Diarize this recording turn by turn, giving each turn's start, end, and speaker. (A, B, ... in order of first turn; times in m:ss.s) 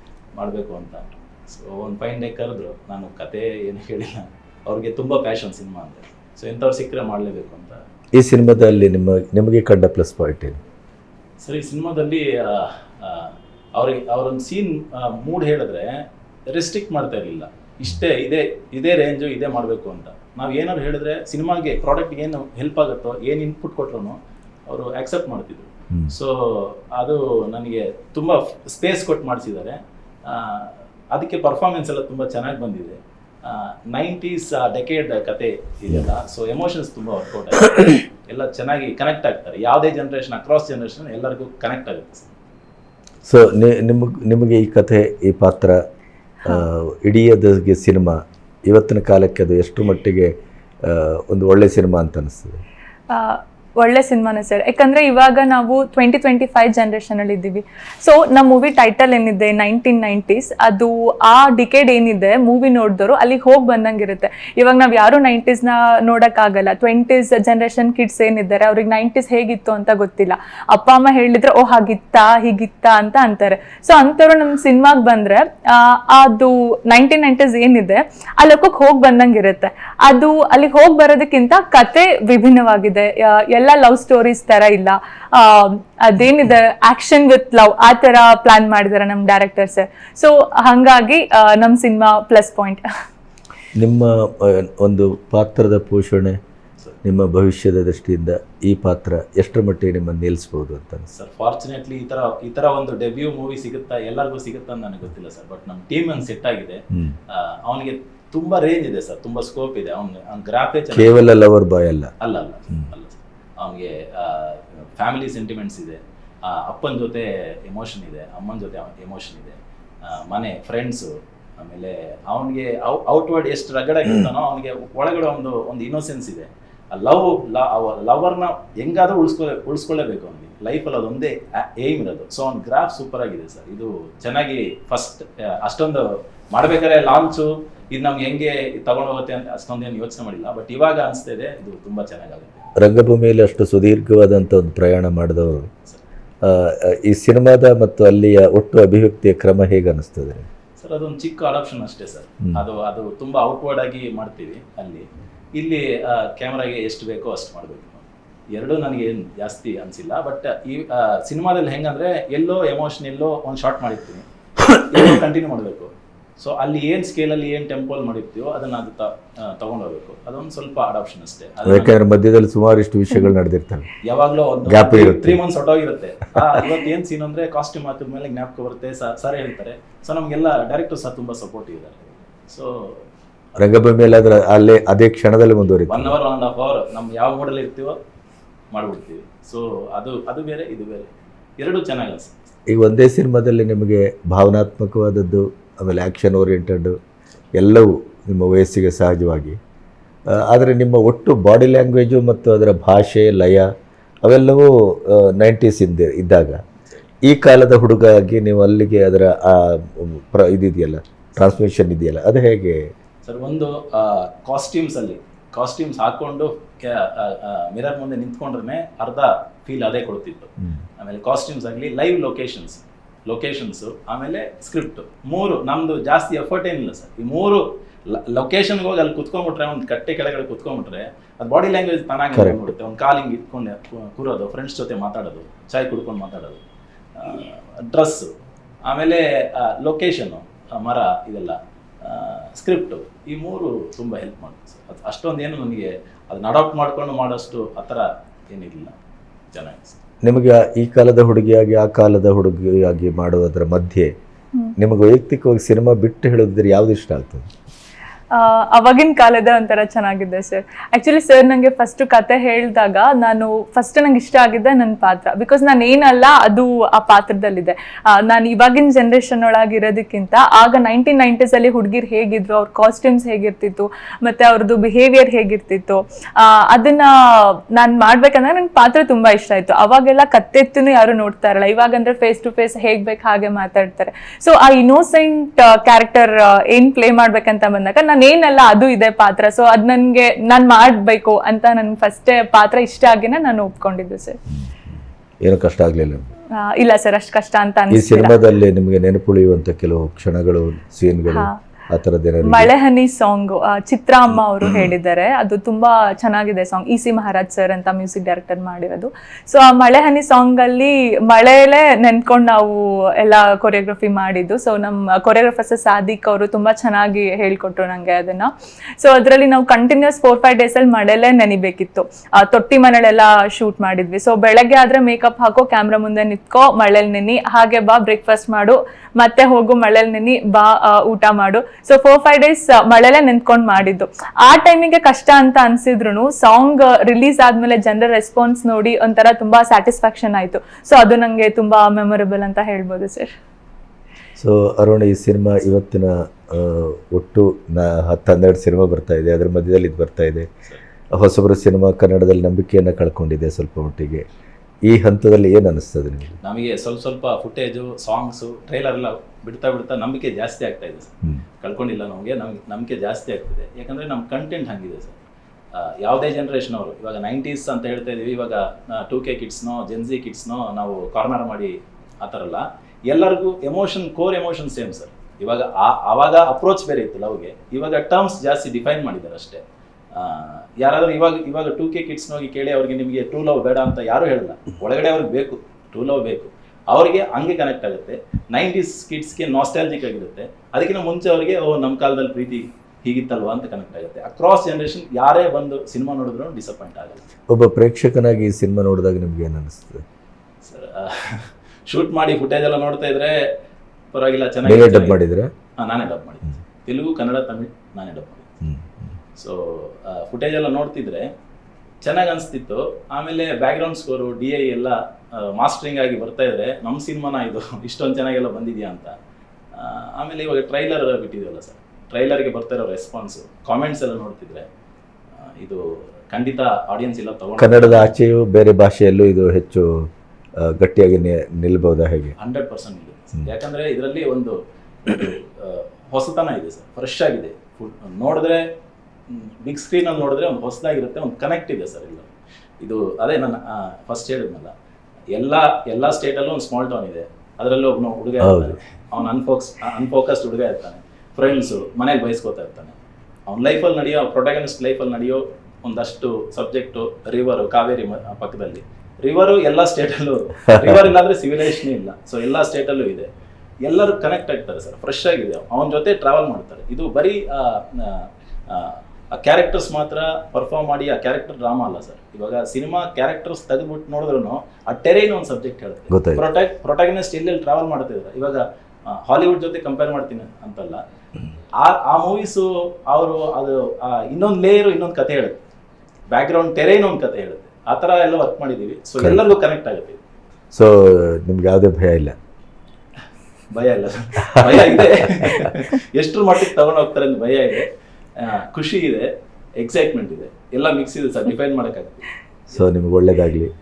0:00.4-0:07.8 A
0:08.2-0:10.6 B
0:11.4-0:42.3 A
0:43.2-0:45.8 B
0:46.4-0:52.6 B
0:53.1-1:32.9 C
1:33.8-1:36.4 B
1:37.0-1:41.1 B
1:41.1-1:51.4 A
1:50.9-1:52.1 B
1:52.2-2:22.7 A
2:22.8-2:25.7 B
2:26.4-2:30.5 B
2:30.8-2:52.0 A
2:51.7-2:53.9 B
2:54.0-3:03.0 A
2:54.7-2:55.4 B
3:03.6-3:06.2 B
3:05.9-3:08.0 A
3:08.7-3:12.4 A
3:12.7-3:17.0 B
3:17.6-3:19.6 B
3:20.3-3:23.7 B
3:24.2-3:26.6 B
3:27.2-3:32.9 B
3:33.2-3:56.6 A
3:52.3-3:52.7 B
3:57.2-3:58.3 A
3:58.8-4:09.0 A
4:09.5-4:10.0 A
4:10.2-4:14.1 B
4:14.8-4:17.5 B
4:18.3-4:54.4 C
4:54.5-4:56.3 B
4:56.6-4:58.4 C
4:57.9-5:02.7 B
5:02.4-5:43.3 C
5:04.4-5:04.9 B
5:44.4-5:50.5 B
5:51.1-5:54.2 B
5:54.9-5:56.4 B
5:56.4-6:05.2 A
6:05.7-6:37.3 A
6:37.5-6:40.0 B
6:40.6-6:43.4 A
6:44.1-6:45.2 A
6:44.6-6:45.5 B
6:45.8-6:48.5 A
6:48.6-6:49.2 B
6:49.4-6:51.3 A
6:52.0-6:59.2 A
6:59.7-7:04.7 A
7:05.4-7:08.2 A
7:07.6-7:12.4 B
7:12.4-7:18.7 A
7:19.3-7:24.7 A
7:25.3-7:33.0 A
7:28.4-7:28.8 B
7:33.5-7:43.3 A
7:40.7-7:41.0 B
7:43.9-8:01.0 A
7:56.1-7:56.5 B
8:01.8-8:05.6 A
8:06.3-8:10.2 A
8:10.7-8:12.4 B
8:13.7-8:22.8 A
8:14.5-8:15.7 B
8:22.7-8:23.7 B